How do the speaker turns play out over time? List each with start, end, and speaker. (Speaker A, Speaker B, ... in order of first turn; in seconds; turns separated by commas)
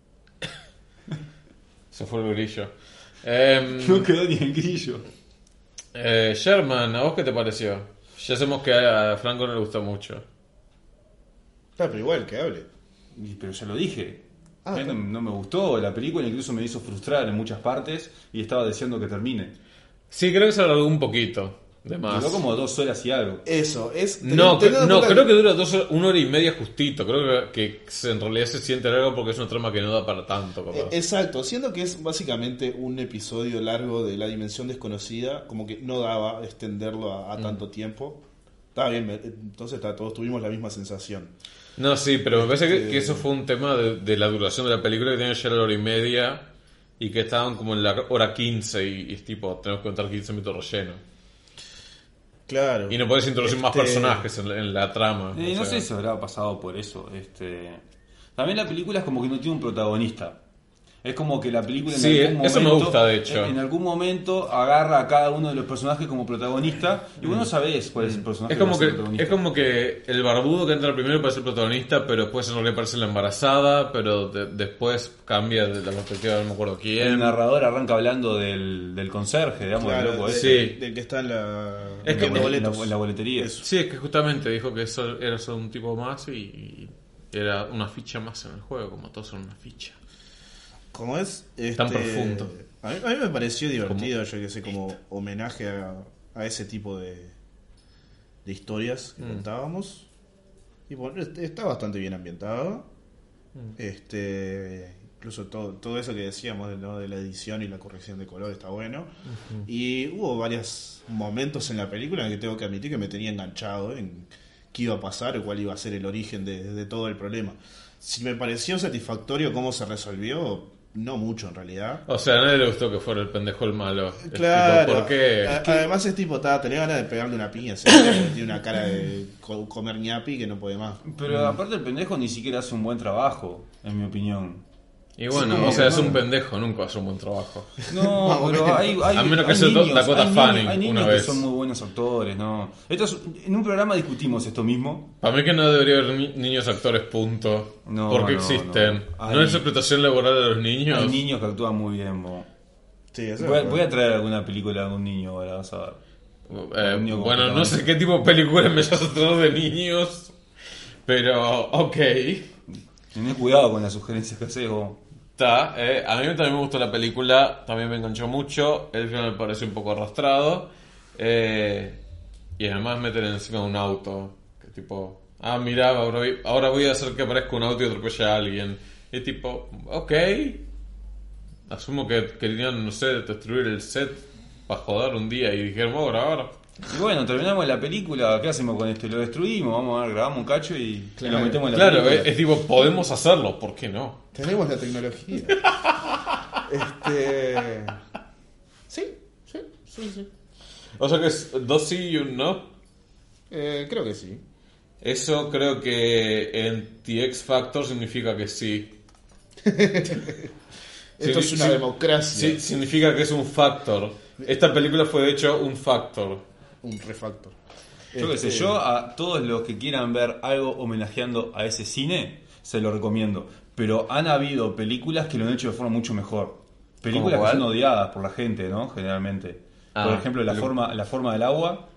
Speaker A: 1.9-4.1, Speaker B: 3.7-5.0, Speaker A: 5.9-10.2, Speaker C: 11.8-12.7, Speaker B: 13.2-19.5, Speaker C: 14.6-15.0, Speaker A: 20.1-22.4, Speaker B: 22.1-23.4, Speaker C: 23.4-25.4, Speaker A: 24.2-30.9, Speaker C: 30.7-38.2, Speaker C: 38.7-41.3, Speaker A: 41.8-46.5, Speaker C: 42.3-43.2, Speaker A: 47.0-51.0, Speaker C: 52.5-54.3, Speaker A: 52.9-55.8, Speaker B: 55.3-57.8, Speaker B: 58.4-60.4, Speaker B: 61.0-69.5, Speaker A: 61.9-63.5, Speaker A: 67.2-77.4, Speaker B: 77.0-80.7, Speaker C: 79.8-83.7, Speaker A: 80.3-80.8, Speaker A: 82.0-82.5, Speaker B: 82.0-83.5, Speaker A: 83.6-90.0, Speaker C: 90.9-97.3, Speaker A: 91.8-92.5, Speaker C: 98.4-100.1, Speaker C: 100.9-102.8, Speaker C: 103.8-109.1, Speaker A: 109.3-109.7, Speaker C: 109.7-122.0, Speaker A: 122.1-125.9, Speaker C: 124.2-131.0, Speaker B: 131.0-134.6, Speaker A: 131.3-131.6, Speaker A: 135.2-137.8, Speaker C: 135.3-136.2, Speaker B: 135.3-136.2, Speaker B: 137.9-145.1, Speaker C: 138.0-139.0, Speaker A: 139.1-141.4, Speaker A: 145.2-151.2, Speaker B: 147.8-149.6, Speaker B: 150.9-152.5, Speaker C: 153.1-153.8, Speaker B: 153.4-156.0, Speaker A: 156.5-160.3, Speaker B: 156.8-157.8, Speaker A: 161.1-162.5, Speaker B: 163.1-165.0, Speaker A: 165.4-172.0, Speaker A: 172.6-180.6, Speaker A: 181.7-186.5, Speaker B: 186.8-192.3, Speaker C: 191.2-191.7, Speaker A: 191.7-194.2, Speaker C: 194.3-195.7, Speaker A: 195.5-196.4, Speaker C: 196.6-198.0, Speaker C: 198.9-200.3, Speaker A: 201.0-202.7, Speaker C: 203.5-204.4, Speaker A: 205.0-208.9, Speaker C: 209.6-210.5, Speaker C: 211.2-212.6, Speaker A: 211.2-216.4, Speaker C: 216.8-217.6, Speaker C: 218.1-218.8, Speaker B: 218.2-231.8, Speaker A: 227.1-227.7, Speaker A: 229.9-230.7